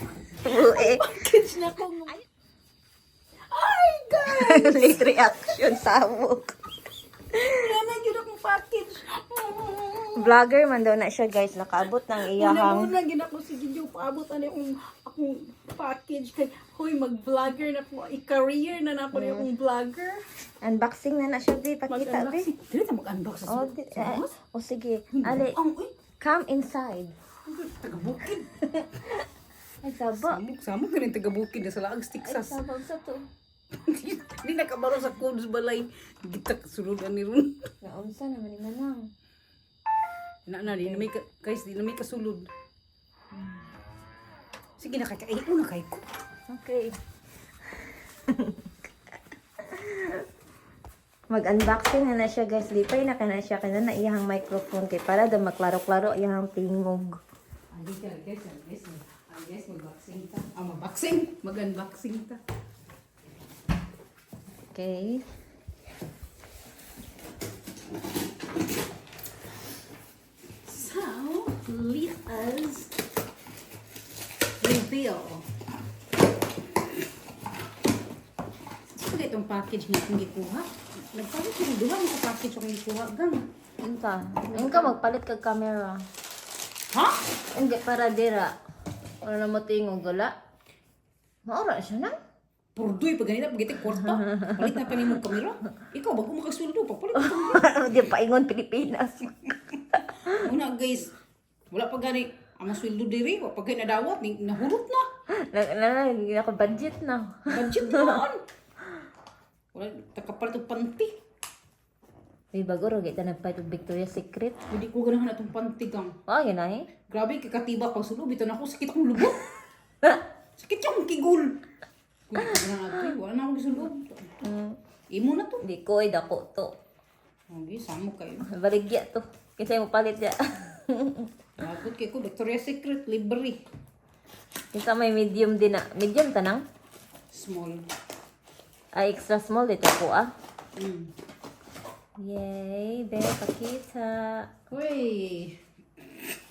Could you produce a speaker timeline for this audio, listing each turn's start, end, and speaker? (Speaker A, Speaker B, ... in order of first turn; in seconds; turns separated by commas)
Speaker A: 0.5-1.0, Speaker B: 0.5-2.2, Speaker B: 3.5-5.6, Speaker A: 4.3-6.5, Speaker B: 7.3-10.3, Speaker A: 10.2-12.9, Speaker B: 12.3-20.2, Speaker A: 19.1-19.5, Speaker A: 20.6-22.5, Speaker B: 21.9-24.4, Speaker A: 23.5-25.6, Speaker B: 25.1-26.0, Speaker A: 26.2-27.1, Speaker B: 27.5-28.5, Speaker A: 28.8-29.2, Speaker A: 29.8-30.4, Speaker B: 30.1-32.6, Speaker A: 32.2-33.2, Speaker B: 33.9-37.6, Speaker A: 37.8-39.1, Speaker B: 40.5-42.5, Speaker A: 40.7-41.1, Speaker B: 44.8-46.0, Speaker A: 46.5-47.0, Speaker A: 47.8-48.7, Speaker A: 49.6-50.2, Speaker A: 51.3-57.2, Speaker B: 57.7-62.4, Speaker A: 64.7-65.2, Speaker B: 70.7-72.9, Speaker B: 74.6-75.5, Speaker B: 79.0-83.5, Speaker A: 83.8-86.0, Speaker B: 84.4-85.0, Speaker B: 86.9-87.2, Speaker A: 87.5-88.5, Speaker A: 89.2-90.3, Speaker A: 91.5-92.2, Speaker B: 92.8-97.8, Speaker A: 94.4-94.9, Speaker A: 97.2-99.5, Speaker B: 100.3-101.1, Speaker B: 101.7-105.1, Speaker A: 105.5-108.2, Speaker B: 107.5-108.4, Speaker B: 109.7-111.1, Speaker A: 112.5-114.6, Speaker B: 114.7-116.2, Speaker A: 116.3-116.9, Speaker B: 117.1-119.5, Speaker B: 120.6-121.6, Speaker B: 122.3-124.3, Speaker A: 124.4-124.8, Speaker B: 125.1-125.6, Speaker A: 125.7-126.7, Speaker B: 127.5-128.5, Speaker A: 128.5-131.3, Speaker B: 131.6-133.6, Speaker A: 134.7-136.6, Speaker B: 137.3-137.9, Speaker A: 138.9-140.3, Speaker B: 140.8-141.1, Speaker A: 142.2-144.5, Speaker B: 144.7-145.6